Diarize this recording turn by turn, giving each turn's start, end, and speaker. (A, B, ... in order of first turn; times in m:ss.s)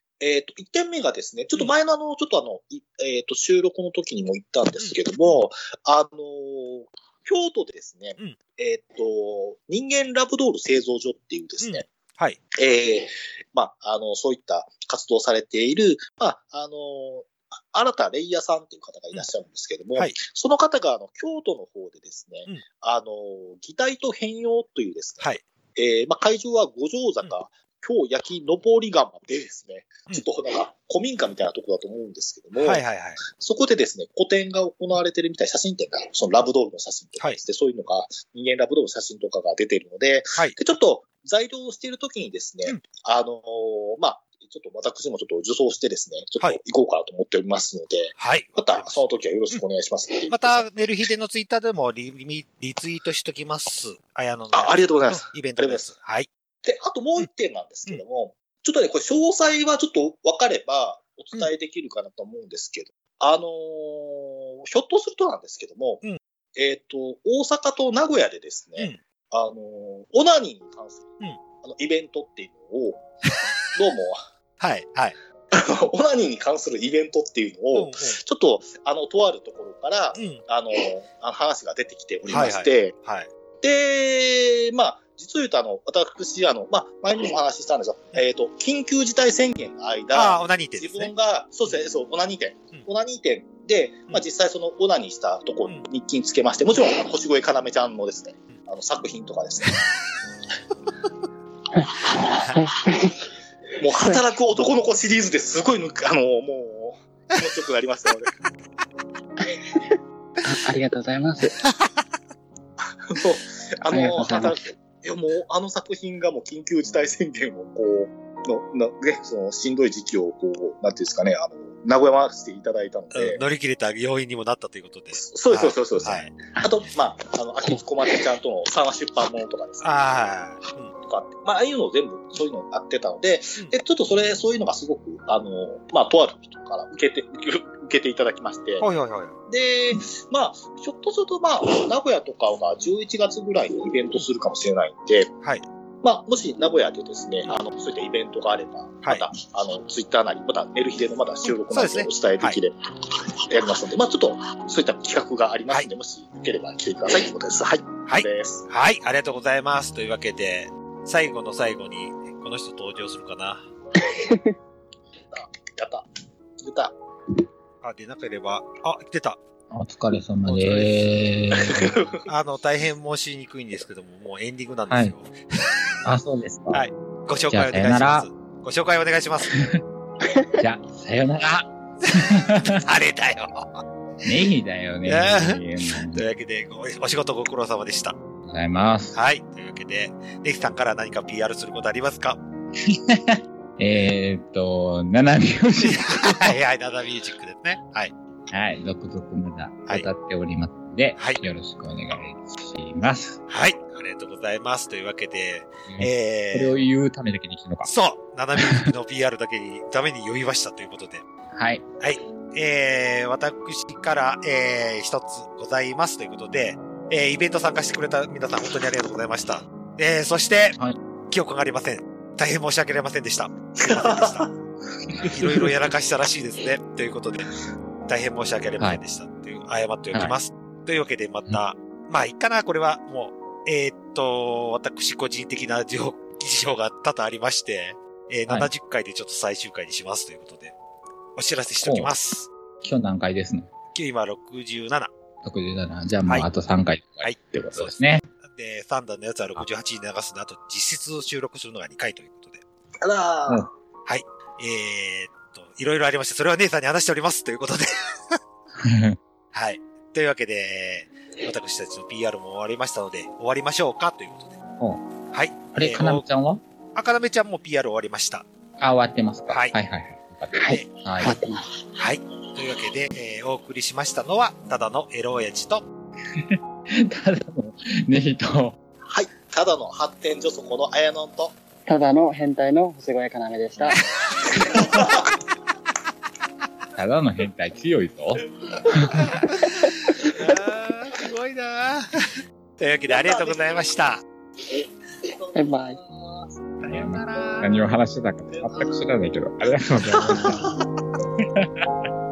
0:00.2-0:11.9 A
0:11.6-0:12.4 B
0:12.5-0:32.8 A
0:32.6-0:33.2 B
0:33.4-0:50.6 A
0:48.2-0:49.0 B
0:50.3-0:56.3 B
0:54.5-0:55.9 A
0:56.6-1:06.0 A
1:06.5-1:13.0 A
1:13.6-1:14.2 A
1:14.6-1:15.2 B
1:15.5-1:22.9 A
1:17.7-1:18.2 B
1:20.1-1:20.4 B
1:22.2-1:23.3 B
1:23.6-1:39.8 A
1:30.1-1:31.1 B
1:41.8-1:43.3 C
1:43.8-1:48.3 A
1:44.0-1:44.2 C
1:49.6-1:49.9 C
1:50.4-1:51.6 C
1:53.0-2:03.4 A
1:53.9-1:54.6 C
2:03.1-2:06.3 B
2:05.1-2:09.9 A
2:09.8-2:10.9 B
2:10.9-2:18.8 A
2:18.8-2:19.4 B
2:19.5-2:25.3 A
2:26.0-2:32.8 A
2:31.7-2:32.6 B
2:33.5-2:38.7 A
2:38.1-2:43.6 B
2:44.0-2:44.5 C
2:45.3-2:46.0 A
2:46.6-2:47.0 A
2:47.8-2:49.4 B
2:49.7-2:52.0 D
2:50.5-2:51.0 B
2:51.8-2:52.1 A
2:52.3-2:55.3 B
2:54.9-2:55.2 D
2:56.0-2:56.8 D
2:56.7-2:59.5 B
2:57.5-2:58.3 D
2:59.6-2:59.8 D
3:00.6-3:02.8 D
3:02.8-3:03.8 B
3:04.2-3:06.2 D
3:05.0-3:05.6 B
3:06.1-3:08.2 B
3:08.5-3:09.2 D
3:09.1-3:12.4 B
3:12.8-3:16.6 D
3:15.8-3:18.1 B
3:18.5-3:23.4 D
3:23.5-3:26.8 B
3:25.9-3:27.9 D
3:27.8-3:31.2 B
3:31.5-3:31.8 D
3:32.0-3:40.8 B
3:41.3-3:44.5 B
3:43.8-3:44.5 A
3:45.3-3:47.5 B
3:48.1-4:00.8 B
4:01.4-4:02.5 B
4:01.8-4:02.1 D
4:02.8-4:03.7 D
4:03.9-4:05.1 B
4:05.4-4:08.3 D
4:07.2-4:12.6 B
4:13.0-4:13.6 A
4:14.0-4:18.4 B
4:18.8-4:19.2 D
4:19.5-4:24.5 B
4:25.3-4:26.2 B
4:25.7-4:26.6 D
4:26.9-4:28.4 B
4:28.8-4:31.4 D
4:29.5-4:29.7 B
4:30.5-4:31.7 C
4:32.0-4:35.8 B
4:37.0-4:38.8 D
4:39.0-4:41.6 A
4:41.9-4:44.0 C
4:44.7-4:45.3 A
4:47.0-4:48.4 D
4:50.3-4:52.2 B
4:52.8-4:54.2 B
4:53.1-4:53.9 A
4:54.7-4:56.6 A
4:55.5-4:56.0 C
4:56.8-5:00.6 D
4:56.8-4:57.6 B
4:58.5-4:59.0 A
5:00.1-5:00.6 A
5:01.4-5:01.8 D